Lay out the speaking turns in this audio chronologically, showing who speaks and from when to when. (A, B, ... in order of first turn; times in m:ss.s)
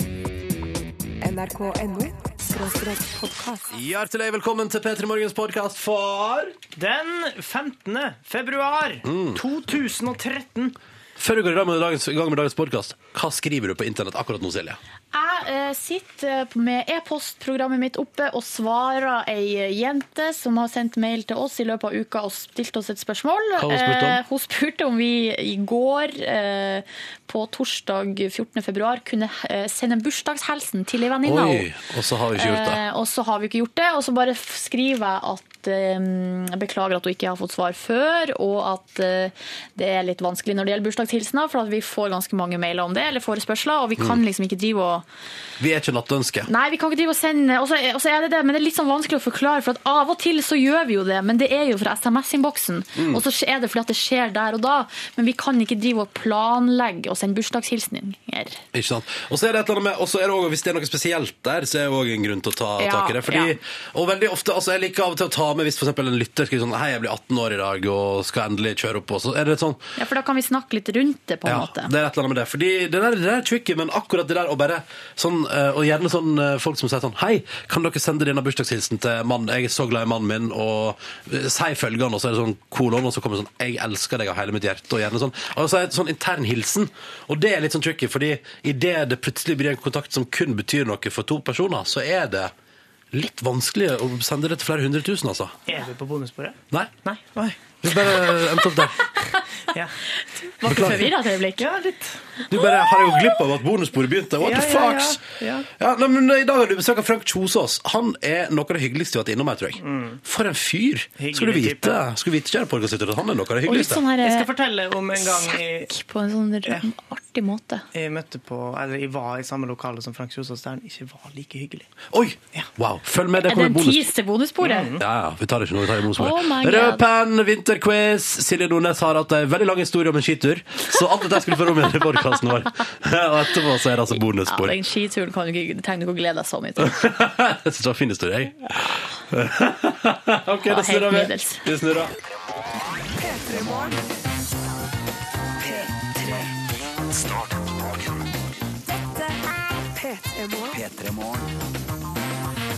0:01.2-0:03.7 A
0:03.7-0:06.6 B
0:06.8-0:10.8 C
0:09.0-0:09.4 B
0:11.2-0:14.8 B
0:15.1-0:31.7 D
0:23.6-0:24.2 B
0:31.2-0:32.8 B
0:32.4-0:45.0 D
0:45.6-0:46.5 B
0:46.4-0:58.6 D
0:52.9-0:53.2 B
0:58.7-1:09.9 B
1:02.8-1:03.5 D
1:10.0-1:11.9 D
1:11.4-1:32.5 B
1:33.1-1:35.6 B
1:35.7-1:38.2 C
1:37.8-1:39.0 B
1:39.7-1:40.0 C
1:40.4-1:41.6 D
1:40.6-1:42.2 C
1:40.6-1:41.1 B
1:42.5-1:54.0 B
1:44.4-1:45.7 C
1:49.8-1:50.2 C
1:51.2-1:52.0 C
1:53.6-1:54.5 D
1:54.2-1:55.9 C
1:55.2-1:57.8 D
1:57.9-2:01.9 C
2:02.1-2:04.1 B
2:03.4-2:04.9 D
2:04.6-2:05.0 C
2:05.0-2:14.8 B
2:06.1-2:07.0 D
2:14.1-2:17.0 D
2:16.8-2:22.1 B
2:20.6-2:21.6 D
2:23.2-2:24.0 A
2:25.6-2:26.4 A
2:28.9-2:31.5 A